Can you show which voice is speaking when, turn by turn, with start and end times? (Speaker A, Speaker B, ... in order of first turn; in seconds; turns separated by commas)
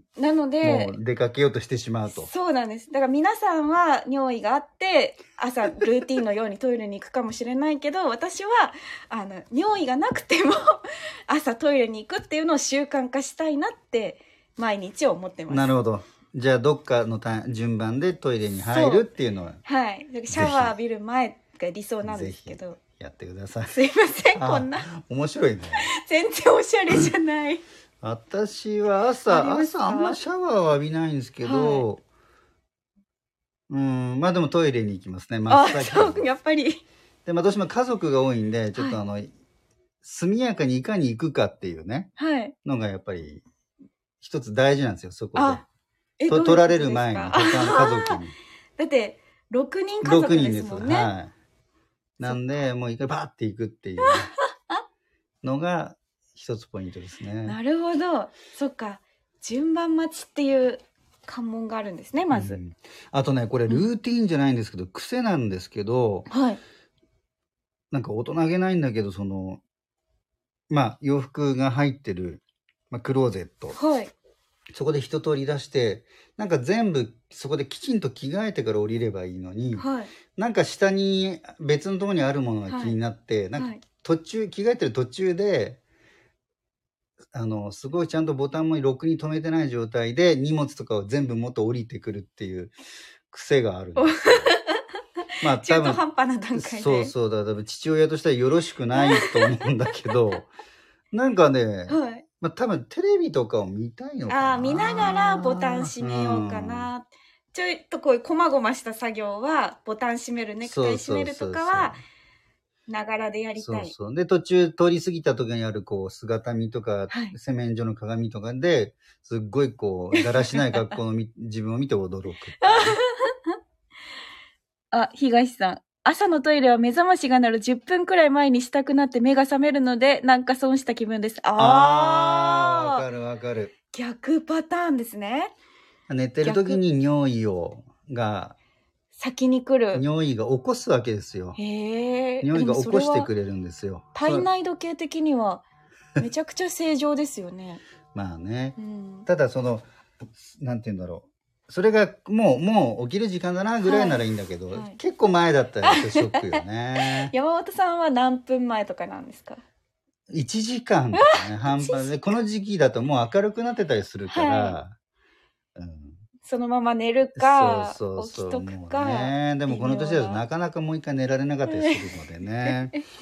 Speaker A: 0.2-1.0, Speaker B: 0.6-2.3, Speaker A: 2.1-15.7, Speaker B: 15.5-19.6, Speaker A: 18.6-19.1, Speaker A: 19.6-22.8, Speaker B: 20.3-20.7, Speaker B: 22.0-23.8, Speaker A: 23.7-24.9, Speaker B: 24.4-25.9, Speaker A: 25.8-27.6, Speaker B: 28.0-32.0, Speaker A: 29.3-30.2, Speaker A: 31.4-31.9, Speaker B: 33.7-36.3, Speaker A: 35.5-36.8, Speaker B: 37.3-39.3, Speaker B: 40.0-42.1, Speaker A: 42.2-42.5, Speaker B: 42.6-43.4, Speaker B: 44.2-45.6, Speaker A: 45.4-45.6, Speaker A: 46.2-48.2, Speaker B: 46.3-48.3, Speaker A: 48.8-51.1, Speaker B: 50.0-51.3, Speaker B: 52.2-54.3, Speaker B: 55.4-57.6, Speaker A: 57.5-62.6, Speaker B: 62.3-66.3, Speaker A: 66.3-66.6, Speaker B: 67.9-69.6, Speaker B: 70.7-73.8, Speaker A: 73.7-74.1, Speaker B: 74.7-85.8, Speaker A: 79.8-80.1, Speaker A: 82.7-83.0, Speaker A: 83.6-83.8, Speaker B: 87.3-92.8, Speaker B: 93.3-94.5, Speaker A: 94.0-94.8, Speaker B: 95.4-96.0, Speaker A: 95.5-97.1, Speaker B: 96.5-100.5, Speaker A: 99.0-99.6, Speaker B: 101.1-106.9, Speaker A: 101.9-102.2, Speaker A: 104.3-112.0, Speaker B: 110.6-112.0, Speaker A: 112.9-113.9, Speaker B: 113.6-123.0, Speaker A: 117.1-117.3, Speaker A: 120.2-121.0, Speaker A: 122.6-123.6, Speaker A: 124.9-133.0, Speaker B: 131.6-133.7, Speaker A: 133.9-135.5, Speaker B: 136.1-138.6, Speaker A: 136.4-136.8, Speaker A: 139.2-140.0, Speaker B: 139.9-141.6, Speaker A: 141.6-143.3, Speaker B: 142.4-144.5, Speaker A: 144.2-145.6, Speaker A: 146.2-147.8, Speaker B: 148.1-149.9, Speaker A: 148.8-149.3, Speaker B: 150.4-157.3, Speaker A: 153.8-154.2, Speaker A: 154.7-155.0, Speaker A: 155.8-159.6, Speaker B: 160.3-164.9, Speaker A: 161.2-162.4, Speaker A: 164.3-164.8, Speaker B: 165.8-166.2, Speaker A: 166.4-170.4, Speaker B: 167.4-172.9, Speaker A: 171.7-172.0, Speaker A: 172.6-173.0